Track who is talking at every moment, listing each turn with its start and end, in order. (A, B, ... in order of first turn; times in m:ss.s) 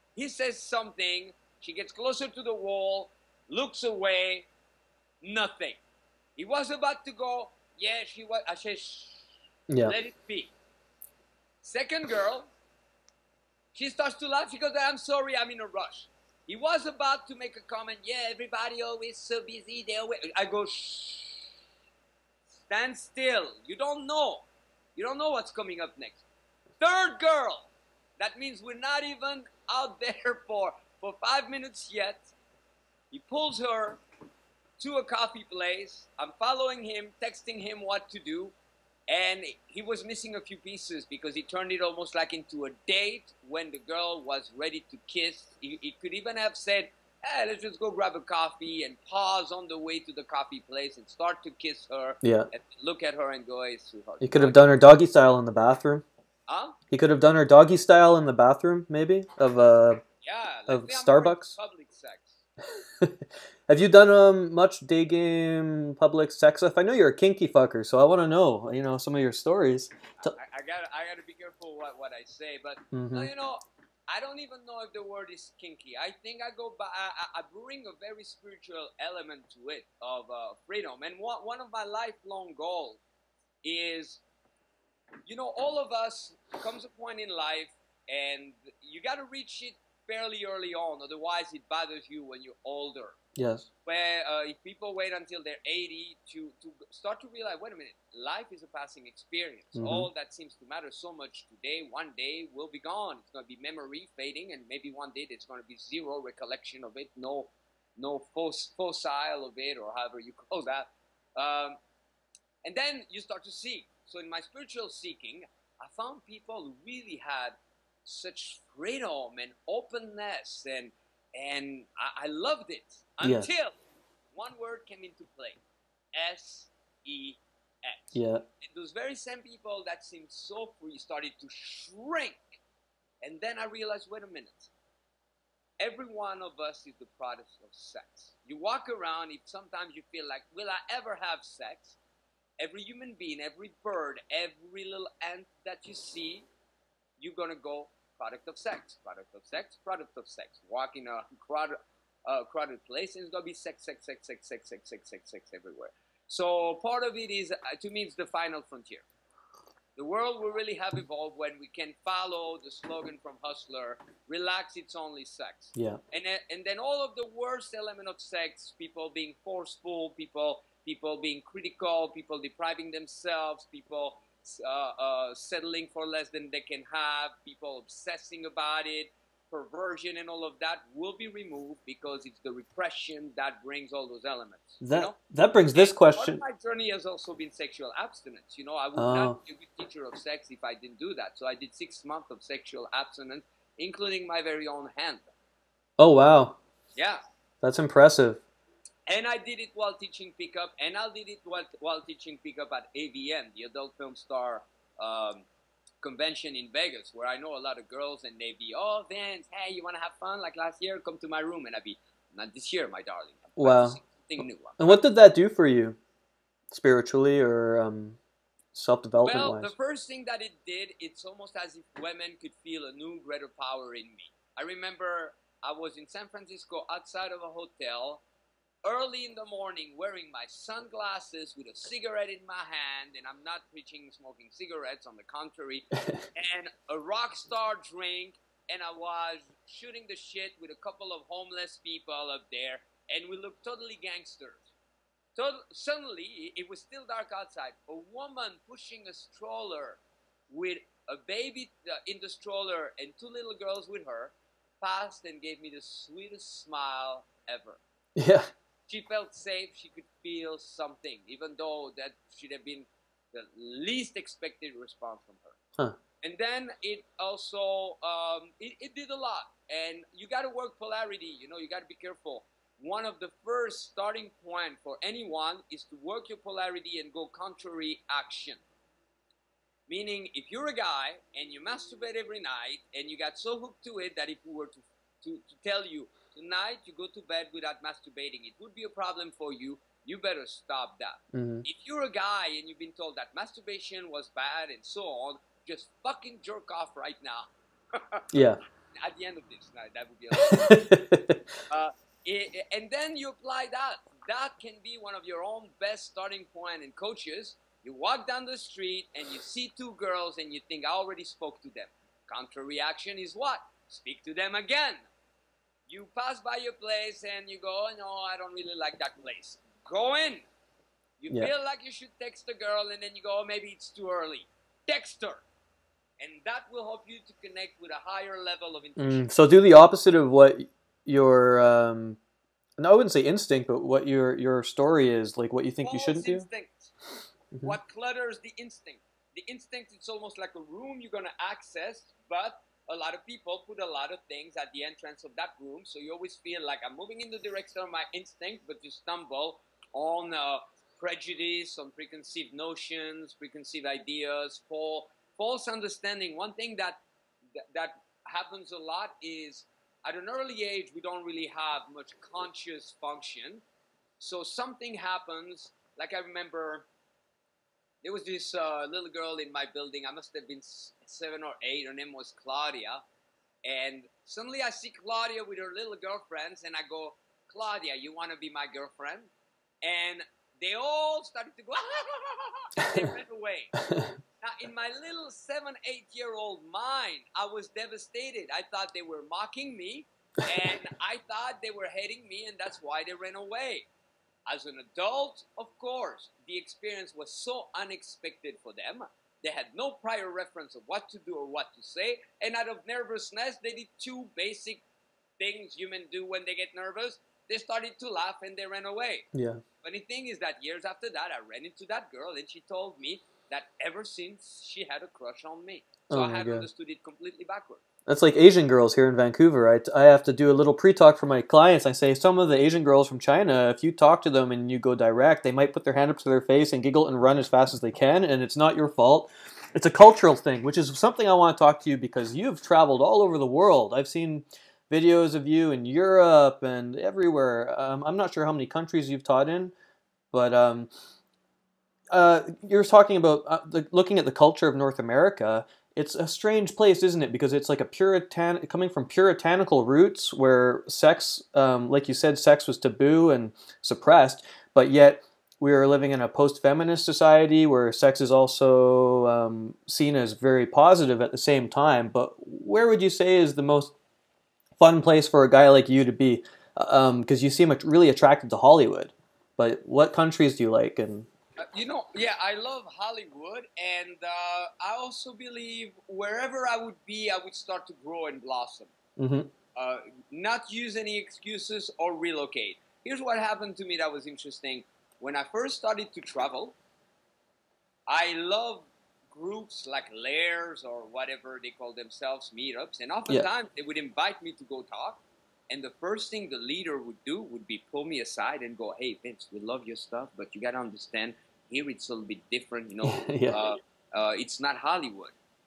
0:00.2-0:04.5 A
0:05.2-0:05.8 A
0:06.4-0:10.5 A
0:09.7-0:09.9 B
0:11.6-0:12.5 A
0:13.7-0:21.5 A
0:22.5-0:26.2 A
0:26.8-0:32.3 A
0:33.1-0:34.0 A
0:34.8-0:38.5 A
0:39.1-0:54.6 A
0:52.2-0:52.5 B
0:54.2-0:56.0 B
0:56.5-0:56.8 A
0:56.9-1:00.0 B
1:00.2-1:02.4 A
1:00.7-1:01.5 B
1:03.7-1:10.3 B
1:10.2-1:23.0 A
1:12.9-1:13.3 B
1:23.6-1:24.2 A
1:25.2-1:33.2 A
1:33.4-1:33.7 B
1:33.8-1:51.8 A
1:39.7-1:40.1 B
1:52.6-2:03.8 A
2:03.2-2:03.5 B
2:04.3-2:05.6 A
2:06.1-2:12.6 A
2:08.1-2:08.4 B
2:13.2-2:14.7 A
2:15.8-2:22.0 A
2:22.6-2:26.5 A
2:27.2-2:31.7 A
2:32.2-2:39.0 A
2:40.0-3:05.2 A
3:04.8-3:06.4 B
3:05.7-3:15.3 A
3:09.0-3:09.4 B
3:16.0-3:16.6 B
3:16.9-3:17.2 A
3:17.6-3:18.4 B
3:19.1-3:25.5 A
3:26.0-3:35.0 A
3:33.6-3:34.0 B
3:34.8-3:36.0 B
3:36.7-3:38.2 B
3:38.7-3:39.7 B
3:39.2-3:48.2 A
3:48.8-4:04.7 A
4:05.3-4:17.8 A
4:18.2-4:18.5 B
4:18.9-4:25.6 A
4:26.2-4:38.6 A
4:39.9-4:58.2 A
4:51.3-4:51.6 B
4:58.3-4:58.6 B
4:58.9-5:00.9 A
5:00.4-5:01.4 B
5:01.7-5:15.1 A
5:15.9-5:20.4 A
5:21.2-5:25.4 A
5:26.2-5:29.2 A
5:29.0-5:32.2 B
5:32.8-5:36.4 B
5:35.8-5:36.9 A
5:37.6-5:57.0 A
5:57.5-6:03.6 A
6:04.2-6:06.9 A
6:08.0-6:13.0 A
6:13.6-6:19.3 A
6:19.8-6:23.7 A
6:24.4-6:33.9 A
6:34.5-6:44.8 A
6:45.4-6:49.3 A
6:49.3-6:49.6 B
6:49.8-6:57.8 A
6:56.1-6:56.6 B
6:58.1-7:19.7 B
7:20.3-7:20.9 B
7:22.1-7:43.9 B
7:44.8-7:51.3 B
7:51.6-7:58.9 A
7:59.2-7:59.5 B
7:59.7-8:06.8 A
8:08.1-8:25.3 A
8:23.0-8:23.7 B